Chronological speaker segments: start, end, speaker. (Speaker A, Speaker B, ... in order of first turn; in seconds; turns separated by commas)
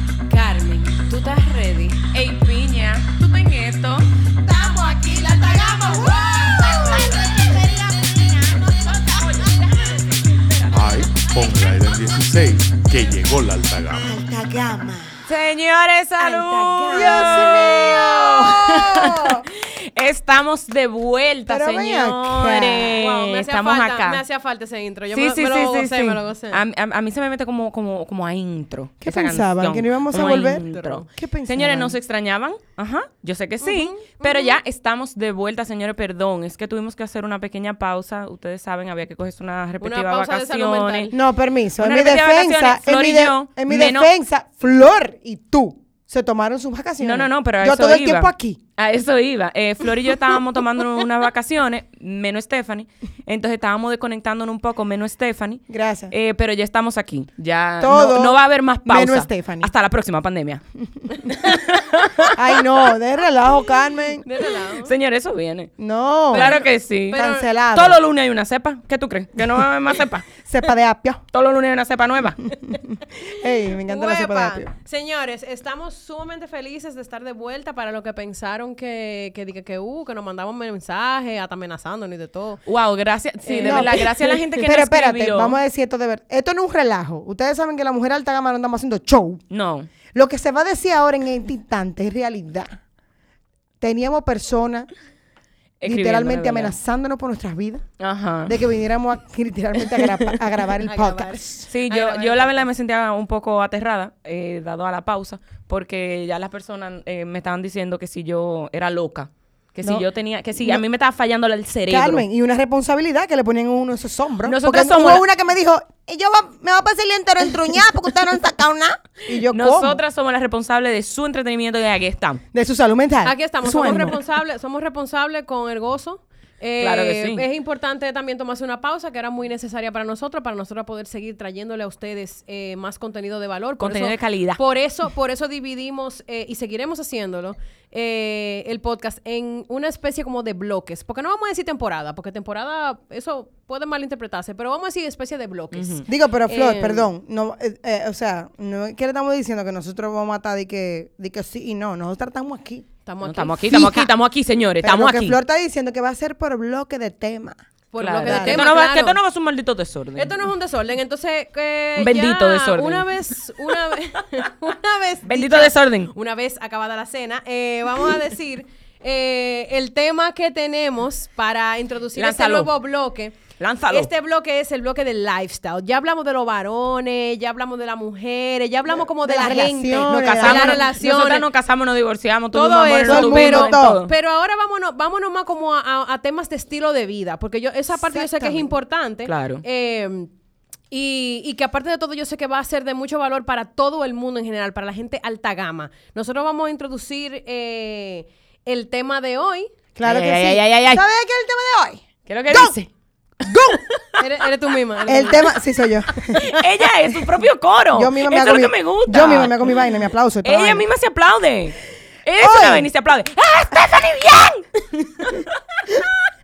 Speaker A: 0.3-4.1, Speaker B: 1.2-1.9, Speaker C: 4.4-9.2, Speaker A: 8.9-10.7, Speaker D: 10.7-14.1, Speaker C: 13.9-15.3, Speaker A: 15.3-24.2, Speaker C: 16.3-19.4, Speaker C: 21.5-22.9, Speaker B: 22.8-26.6, Speaker A: 25.1-41.1, Speaker C: 29.0-31.9, Speaker B: 30.7-31.0, Speaker B: 33.6-34.6, Speaker B: 39.8-41.1, Speaker C: 41.1-48.6, Speaker A: 41.8-44.1, Speaker A: 47.0-62.6, Speaker C: 55.7-56.1, Speaker C: 57.8-59.7, Speaker C: 62.3-64.2, Speaker B: 64.2-64.9, Speaker A: 64.8-65.7, Speaker C: 65.8-66.6, Speaker B: 66.3-67.5, Speaker A: 66.3-70.2, Speaker C: 67.1-68.0, Speaker C: 70.4-71.2, Speaker A: 71.3-72.5, Speaker C: 72.5-74.7, Speaker B: 73.8-82.6, Speaker A: 82.7-85.6, Speaker B: 83.4-84.3, Speaker C: 83.6-89.4, Speaker A: 89.5-89.9, Speaker C: 90.1-92.8, Speaker C: 93.8-94.9, Speaker A: 95.8-96.7, Speaker C: 95.8-97.8, Speaker A: 98.0-98.6, Speaker C: 98.5-102.5, Speaker A: 100.0-100.3, Speaker B: 100.8-102.4, Speaker A: 101.7-112.2, Speaker C: 111.9-120.0, Speaker A: 114.4-115.2, Speaker A: 119.5-122.4, Speaker C: 122.5-124.1, Speaker B: 123.2-147.1, Speaker A: 126.8-127.4, Speaker A: 133.8-134.6, Speaker A: 145.7-146.1, Speaker C: 146.1-152.8, Speaker B: 153.1-153.7, Speaker A: 153.2-155.4, Speaker C: 153.7-154.1, Speaker C: 154.8-157.6, Speaker B: 157.9-159.2, Speaker A: 158.0-160.4, Speaker C: 158.2-158.6, Speaker B: 160.2-173.4, Speaker A: 162.0-164.0, Speaker A: 165.2-166.1, Speaker A: 172.2-172.7, Speaker A: 173.6-174.1, Speaker B: 173.9-181.4, Speaker C: 179.2-180.8, Speaker A: 180.3-184.1, Speaker B: 182.5-190.3, Speaker C: 183.0-184.0, Speaker C: 187.9-188.7, Speaker A: 189.2-189.6, Speaker B: 190.9-199.7, Speaker C: 199.9-202.7, Speaker A: 200.0-201.0, Speaker A: 202.3-202.9, Speaker C: 203.4-203.9, Speaker A: 203.4-204.0, Speaker B: 204.2-205.5, Speaker C: 205.1-206.4, Speaker B: 206.3-206.6, Speaker A: 206.3-209.7, Speaker C: 207.9-210.9, Speaker A: 210.4-216.2, Speaker C: 212.4-212.9